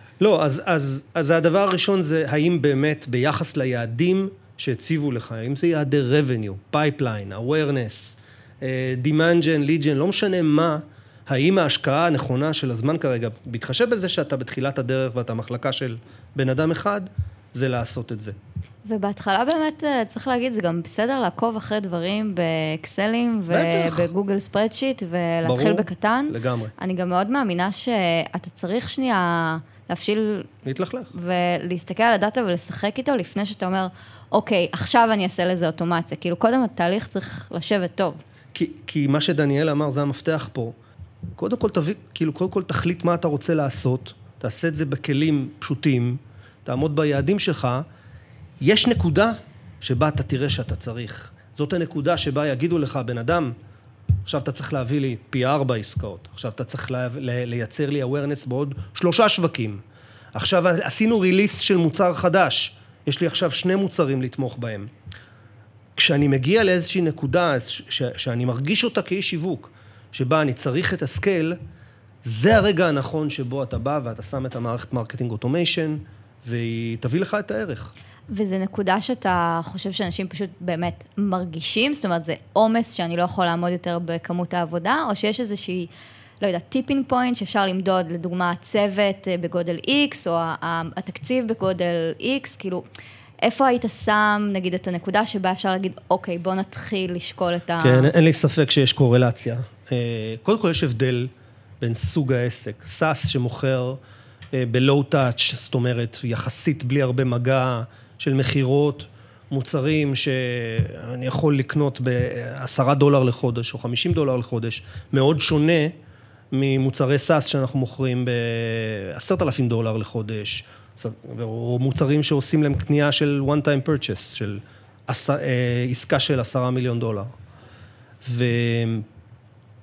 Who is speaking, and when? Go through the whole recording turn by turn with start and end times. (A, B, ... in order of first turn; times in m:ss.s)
0:00.2-0:18.4 A
0:18.8-0:30.5 B
0:23.5-0:24.1 A
0:25.4-0:26.7 A
0:30.6-0:31.1 A
0:31.1-0:38.2 B
0:38.5-0:40.8 A
0:41.4-0:47.8 A
0:48.6-0:53.5 A
0:54.2-0:59.8 A
1:00.3-1:04.9 A
1:06.0-1:11.6 A
1:12.2-1:17.9 A
1:18.3-1:25.9 B
1:26.4-1:32.8 B
1:33.4-1:38.1 B
1:37.8-1:44.0 A
1:44.5-1:56.0 A
1:56.5-2:07.3 A
2:08.2-2:09.0 A